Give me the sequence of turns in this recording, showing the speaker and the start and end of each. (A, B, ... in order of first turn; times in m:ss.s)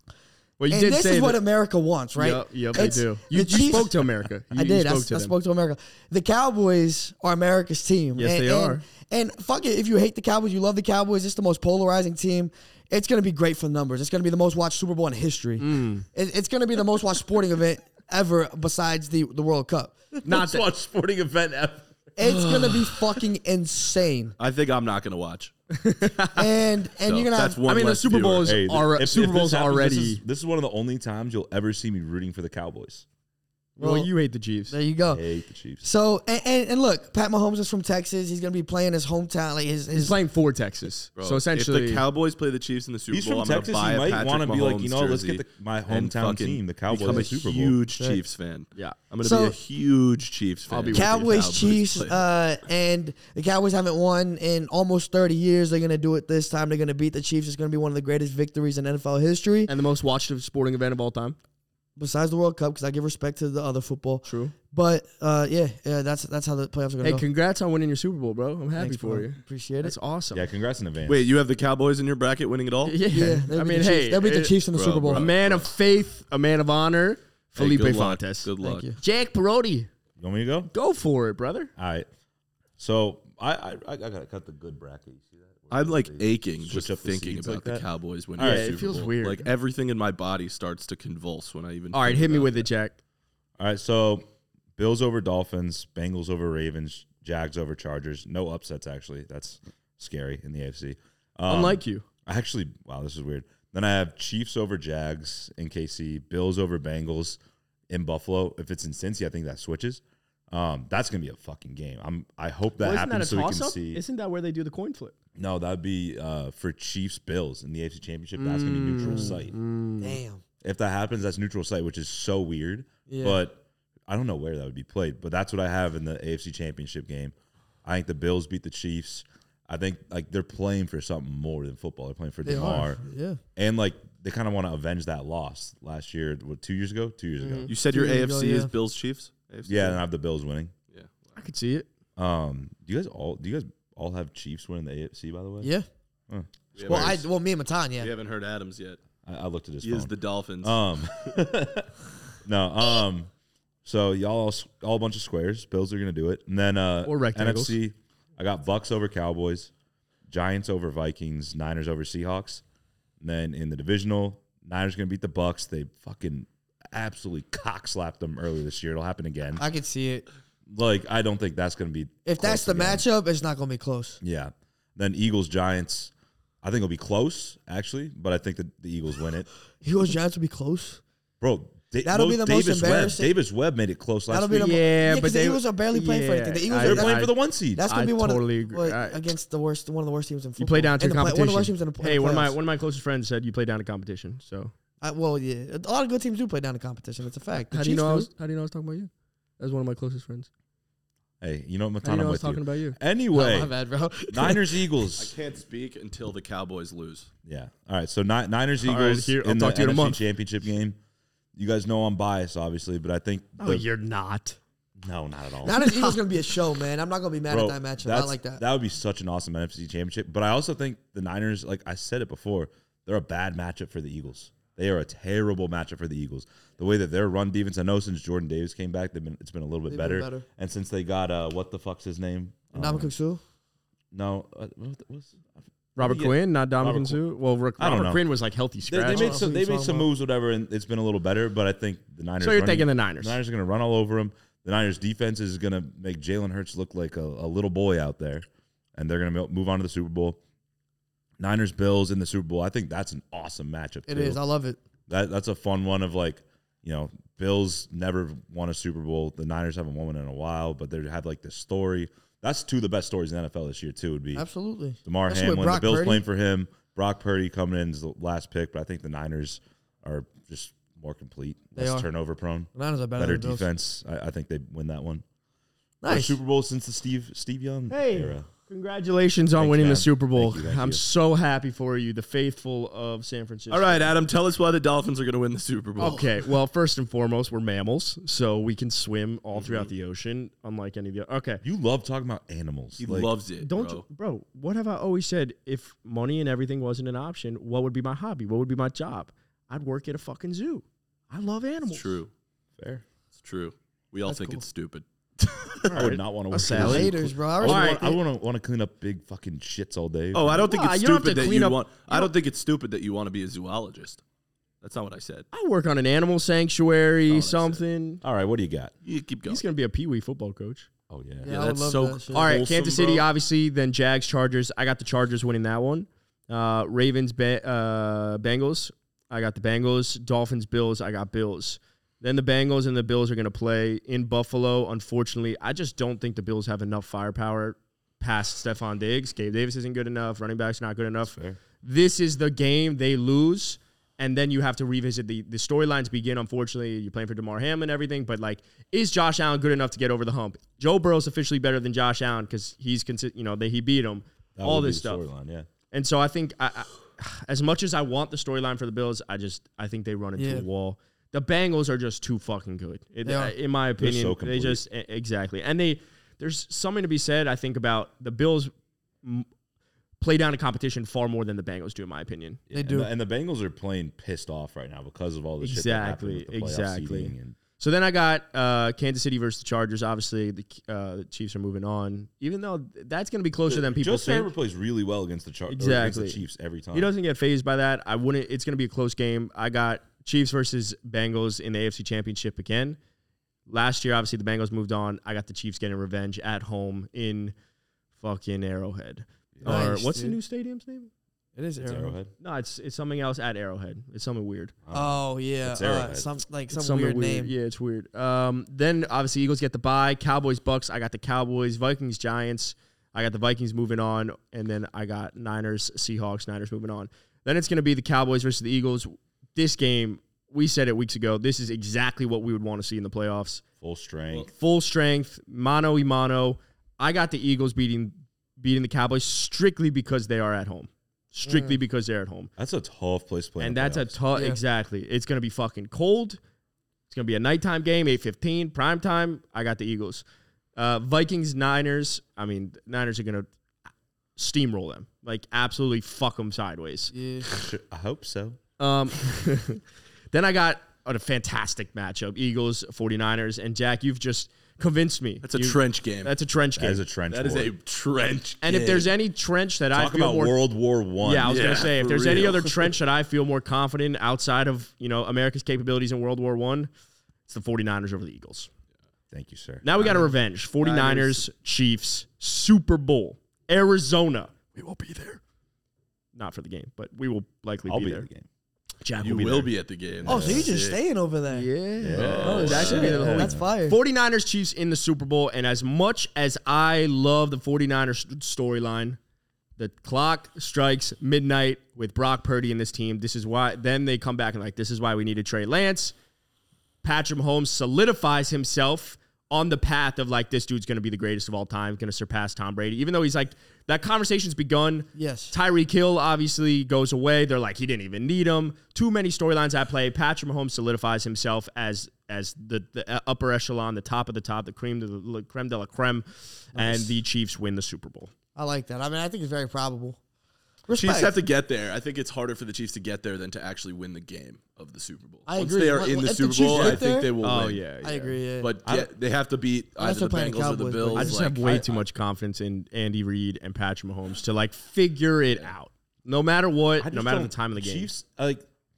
0:00.6-0:01.4 A
0:00.7-0:20.0 B
0:02.2-0:05.3 A
0:08.2-0:08.8 A
0:15.6-0:16.1 A
0:20.2-0:22.4 C
0:20.2-0:20.7 A
0:22.2-0:24.4 B
0:24.4-0:25.5 D
0:25.7-0:26.5 A
0:26.3-0:27.6 B
0:27.0-0:28.5 D
0:27.7-0:30.2 A
0:28.4-0:33.0 C
0:33.8-0:34.1 B
0:33.8-0:34.8 A
0:34.7-0:35.3 B
0:35.1-0:35.9 C
0:35.8-0:40.2 B
0:40.0-0:42.0 A
0:41.2-0:52.2 D
0:43.1-0:47.8 C
0:49.2-0:49.6 B
0:50.7-0:51.2 A
0:50.9-0:59.7 B
0:59.7-1:01.4 A
1:02.0-1:07.2 B
1:04.2-1:04.5 A
1:07.0-1:10.5 A
1:08.8-1:10.0 B
1:10.3-1:11.3 C
1:11.1-1:13.0 D
1:12.8-1:14.6 A
1:13.1-1:15.3 B
1:14.7-1:15.7 D
1:15.1-1:19.9 A
1:17.6-1:18.9 D
1:18.6-1:19.0 B
1:20.2-1:20.7 C
1:20.7-1:21.7 A
1:21.8-1:22.1 C
1:22.8-1:27.8 C
1:25.7-1:32.7 D
1:28.4-1:28.8 C
1:28.4-1:29.5 A
1:31.9-1:33.0 A
1:33.6-1:47.4 C
1:41.5-1:42.0 A
1:47.9-1:54.0 C
1:52.8-1:55.2 A
1:55.4-1:59.6 C
1:58.4-2:00.2 A
1:59.0-1:59.4 B
2:00.0-2:00.4 B
2:00.6-2:13.0 C
2:03.1-2:03.4 B
2:12.4-2:13.4 B
2:13.6-2:17.7 C
2:17.4-2:17.7 A
2:17.7-2:20.0 D
2:17.9-2:18.7 B
2:19.7-2:20.7 C
2:20.9-2:21.4 D
2:21.4-2:21.9 A
2:22.2-2:25.7 C
2:25.6-2:25.9 B
2:26.3-2:27.2 C
2:26.8-2:27.3 D
2:26.8-2:28.1 B
2:28.0-2:29.0 D
2:29.2-2:33.3 C
2:29.8-2:30.8 D
2:33.8-2:39.7 C
2:37.0-2:37.8 A
2:40.3-2:42.6 C
2:43.2-2:49.6 C
2:49.6-2:50.3 B
2:50.7-2:53.0 C
2:52.2-2:54.2 B
2:54.2-2:59.5 C
2:59.8-3:01.0 B
3:01.4-3:04.8 C
3:02.0-3:03.3 B
3:04.3-3:12.6 B
3:04.6-3:07.3 A
3:06.8-3:07.9 C
3:07.9-3:09.2 A
3:10.6-3:14.7 A
3:15.0-3:18.3 B
3:17.7-3:20.5 A
3:21.4-3:23.8 C
3:22.0-3:23.0 A
3:23.3-3:24.8 B
3:24.3-3:25.4 C
3:25.2-3:27.3 D
3:27.5-3:31.0 C
3:28.8-3:30.2 A
3:31.6-3:33.8 C
3:33.6-3:34.6 A
3:35.0-3:35.8 C
3:35.6-3:38.6 B
3:35.7-3:36.2 A
3:37.5-3:53.1 C
3:49.9-3:50.4 B
3:52.7-3:53.4 B
3:54.1-3:57.2 C
3:56.0-3:59.4 A
3:57.8-3:58.2 C
3:58.9-4:10.4 C
3:59.1-4:00.1 B
4:02.4-4:03.4 A
4:11.4-4:14.4 C
4:14.1-4:14.8 B
4:15.1-4:24.5 C
4:24.4-4:26.2 B
4:25.0-4:35.2 C
4:31.8-4:32.1 B
4:32.7-4:33.7 B
4:36.0-4:36.4 B
4:36.1-4:38.5 C
4:37.9-4:44.1 A
4:39.6-4:41.0 C
4:43.7-4:46.5 D
4:46.0-4:51.6 A
4:49.5-4:49.9 D
4:51.6-4:53.3 C
4:53.0-4:54.0 D
4:53.6-5:02.2 A
5:01.9-5:02.3 D
5:02.8-5:03.0 C
5:03.4-5:05.0 D
5:04.3-5:04.6 B
5:05.8-5:08.0 A
5:05.9-5:10.7 C
5:06.6-5:08.2 B
5:10.3-5:14.2 D
5:10.6-5:12.3 A
5:14.8-5:15.5 D
5:15.5-5:18.2 A
5:17.3-5:17.8 D
5:18.2-5:18.9 C
5:19.0-5:19.6 D
5:19.5-5:20.9 A
5:21.1-5:21.5 C
5:21.4-5:23.3 D
5:21.4-5:22.6 B
5:22.3-5:55.2 A
5:41.2-5:41.6 C
5:54.6-5:55.7 C
5:55.9-6:08.7 A
6:00.4-6:00.7 B
6:03.2-6:03.6 B
6:04.0-6:04.8 C
6:09.2-6:09.5 A
6:10.2-6:12.6 A
6:12.7-6:17.6 C
6:12.7-6:13.1 B
6:15.6-6:24.5 A
6:23.7-6:27.1 C
6:25.7-6:26.4 A
6:26.9-6:33.0 A
6:33.7-6:37.5 A
6:38.2-6:41.1 A
6:39.6-6:40.0 C
6:39.6-6:40.4 B
6:41.6-6:42.2 B
6:41.8-6:42.3 C
6:42.4-6:44.7 A
6:44.8-6:46.3 C
6:44.9-6:47.5 B
6:46.7-7:03.6 A
7:03.8-7:04.5 C
7:04.4-7:12.5 A
7:11.4-7:11.8 B
7:12.6-7:14.2 C
7:13.6-7:16.4 A
7:14.3-7:14.6 B
7:17.1-7:20.2 A
7:20.8-7:23.5 A
7:24.4-7:27.1 A
7:27.1-7:27.5 B
7:27.5-7:28.6 C
7:28.8-7:37.0 A
7:35.4-7:36.3 D
7:36.8-7:37.7 C
7:37.3-7:39.1 D
7:38.6-7:40.6 A
7:39.9-7:41.9 C
7:41.2-7:46.9 A
7:41.4-7:42.9 D
7:47.5-7:48.7 A
7:49.3-7:49.9 C
7:49.8-7:55.4 A
7:50.0-7:50.3 D
7:50.8-7:51.5 D
7:56.4-7:58.3 A
7:57.9-7:58.5 C
7:59.0-7:59.7 A
7:59.2-8:01.0 D
8:00.2-8:00.7 C
8:00.3-8:01.7 B
8:01.5-8:09.2 A
8:02.0-8:03.7 C
8:02.0-8:03.2 D
8:02.5-8:04.0 B
8:09.8-8:16.2 A
8:17.0-8:38.3 A
8:25.2-8:25.5 B
8:36.8-8:37.2 B
8:38.6-8:40.2 B
8:40.9-8:41.4 B
8:40.9-8:47.8 D
8:45.5-8:47.3 B
8:46.7-8:47.0 C
8:47.4-8:48.4 A
8:48.0-8:48.7 B
8:48.6-8:52.0 D
8:48.8-8:49.1 C
8:50.0-8:51.6 B
8:51.2-8:58.1 A
8:57.0-8:58.7 C